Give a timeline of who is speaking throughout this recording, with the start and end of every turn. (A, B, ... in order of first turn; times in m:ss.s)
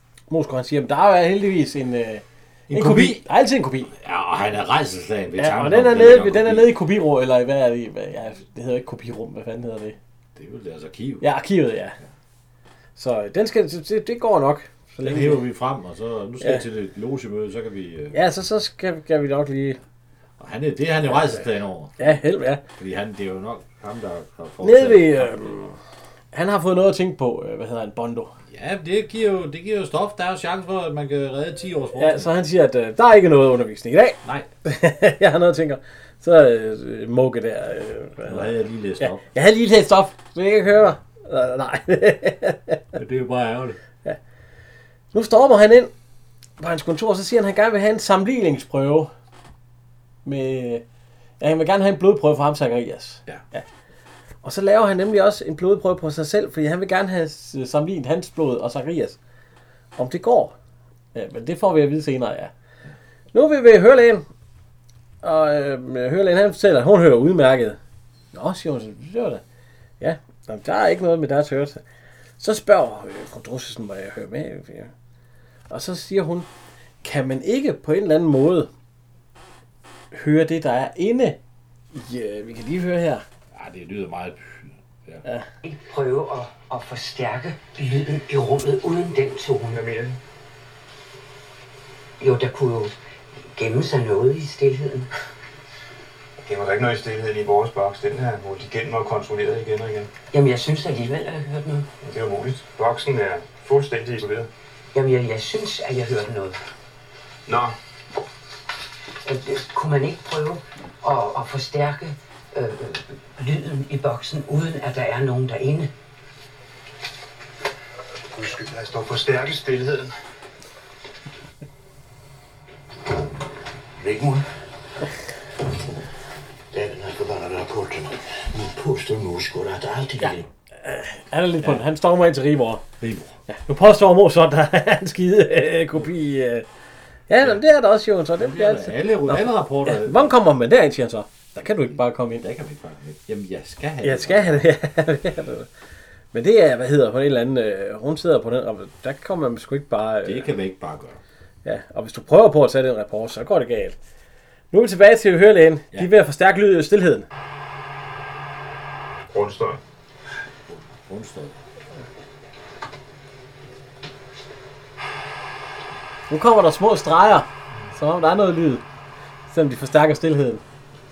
0:00.3-0:03.9 A
0:02.7-0:03.2 B
0:03.9-0:06.7 B
0:05.4-0:10.0 A
0:10.4-0:11.3 B
0:11.2-0:12.0 A
0:13.0-0:15.5 A
0:15.0-0:18.2 B
0:18.1-0:19.8 A
0:20.4-0:22.0 B
0:21.1-0:21.4 A
0:22.0-0:22.6 A
0:22.8-0:25.6 B
0:24.6-0:25.8 A
0:26.3-0:28.4 A
0:28.5-0:32.3 B
0:32.0-0:42.8 A
0:34.2-0:34.5 B
0:38.2-0:39.2 B
0:43.0-0:43.8 B
0:45.1-0:45.9 A
0:46.6-0:49.1 A
0:50.2-0:50.8 A
0:51.4-0:53.6 A
0:54.4-0:59.2 A
1:00.0-1:00.6 A
1:01.1-1:02.5 A
1:03.3-1:04.2 A
1:05.2-1:07.8 A
1:08.3-1:09.4 A
1:10.0-1:11.8 A
1:12.4-1:14.9 A
1:15.7-1:16.5 A
1:17.0-1:18.7 A
1:20.1-1:21.4 A
1:21.9-1:23.2 A
1:23.5-1:25.2 B
1:25.6-1:29.8 C
1:29.7-1:30.2 D
1:32.2-1:32.9 C
1:33.5-1:35.1 C
1:36.4-1:40.1 D
1:40.3-1:41.9 C
1:42.0-1:44.5 D
1:44.9-1:46.6 C
1:47.5-1:47.8 D
1:49.2-1:55.9 C
1:58.4-2:00.1 D
2:04.0-2:04.5 E
2:06.7-2:10.5 E
2:10.2-2:12.8 A
2:13.0-2:13.4 B
2:13.5-2:16.6 A
2:17.3-2:22.4 A
2:18.4-2:20.4 B
2:22.4-2:24.7 B
2:24.0-2:25.7 A
2:26.3-2:30.5 A
2:30.2-2:31.2 B
2:31.6-2:34.0 A
2:34.7-2:37.3 A
2:39.3-2:39.8 D
2:40.7-2:41.6 B
2:46.3-2:48.8 A
2:49.5-2:50.6 A